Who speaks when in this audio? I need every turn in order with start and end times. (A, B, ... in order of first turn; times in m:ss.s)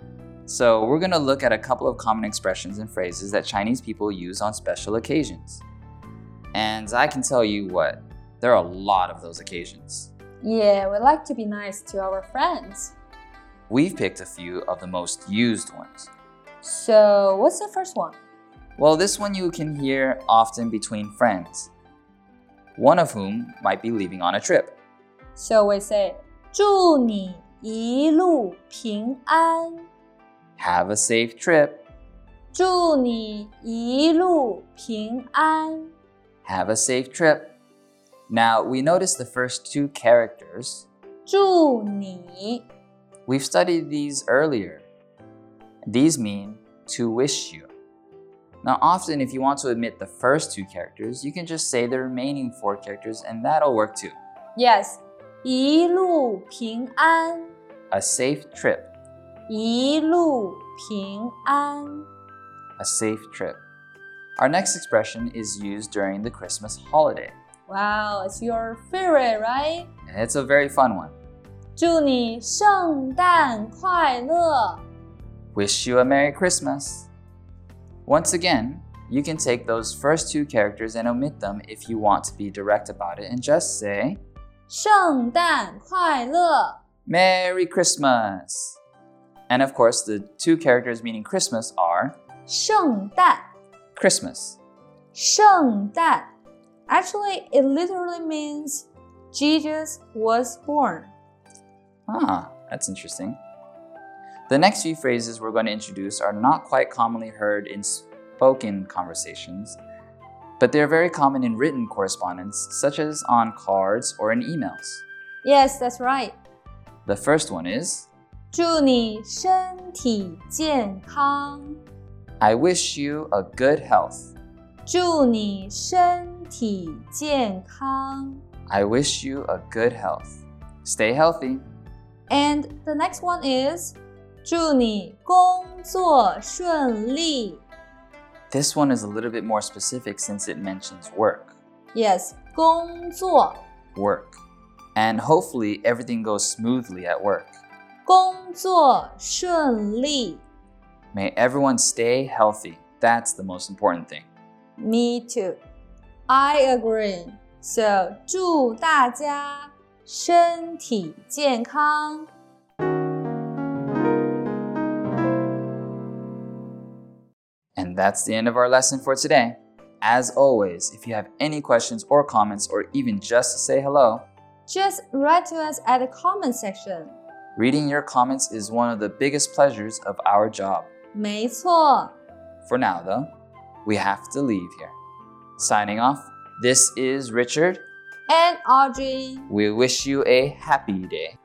0:00.5-0:05.6 A
0:06.5-0:10.1 A
0:10.4-0:12.9 B
0:13.7-0:16.1 A
0:16.6-0:18.2 B
0:18.8-0:21.7 A
0:22.8-0:24.8 A
0:25.4-0:29.9 B
0:30.6-0:31.8 A
0:32.5-0:35.9 B
0:36.4-0:37.6 A
0:38.3-0:40.9 A
0:41.2-0:42.6 B
0:43.2-0:44.9 A
0:45.8-0:47.7 A
0:48.6-0:54.2 A
0:54.6-0:57.6 B
0:57.9-0:58.9 A
0:59.5-1:02.1 B
1:02.8-1:03.6 A
1:04.4-1:07.4 A
1:07.7-1:09.9 B
1:10.1-1:11.2 A
1:11.8-1:14.8 B
1:15.5-1:17.1 A
1:18.0-1:24.2 A
1:24.7-1:26.8 B
1:27.0-1:28.8 A
1:29.5-1:32.2 A
1:32.5-1:33.4 B
1:33.9-1:34.6 A
1:35.1-1:36.3 B
1:36.9-1:41.1 B
1:42.1-1:43.4 A
1:44.5-1:49.8 A
1:50.6-1:55.0 A
1:55.4-1:56.4 B
1:57.0-1:58.1 A
1:58.5-2:01.8 B
2:02.4-2:04.3 A
2:04.8-2:08.4 B
2:08.7-2:11.7 A
2:12.3-2:17.6 B
2:18.5-2:21.6 A
2:21.9-2:23.6 B
2:23.9-2:24.4 A
2:24.9-2:27.6 A
2:28.0-2:30.4 B
2:31.1-2:34.3 A
2:34.8-2:35.6 B
2:36.3-2:42.3 B
2:47.8-2:54.3 A
2:54.7-2:57.2 B
2:57.6-3:00.9 A
3:01.1-3:02.1 B
3:02.6-3:03.3 A
3:03.8-3:05.0 A
3:05.6-3:07.8 A
3:08.3-3:09.5 B
3:09.5-3:11.4 A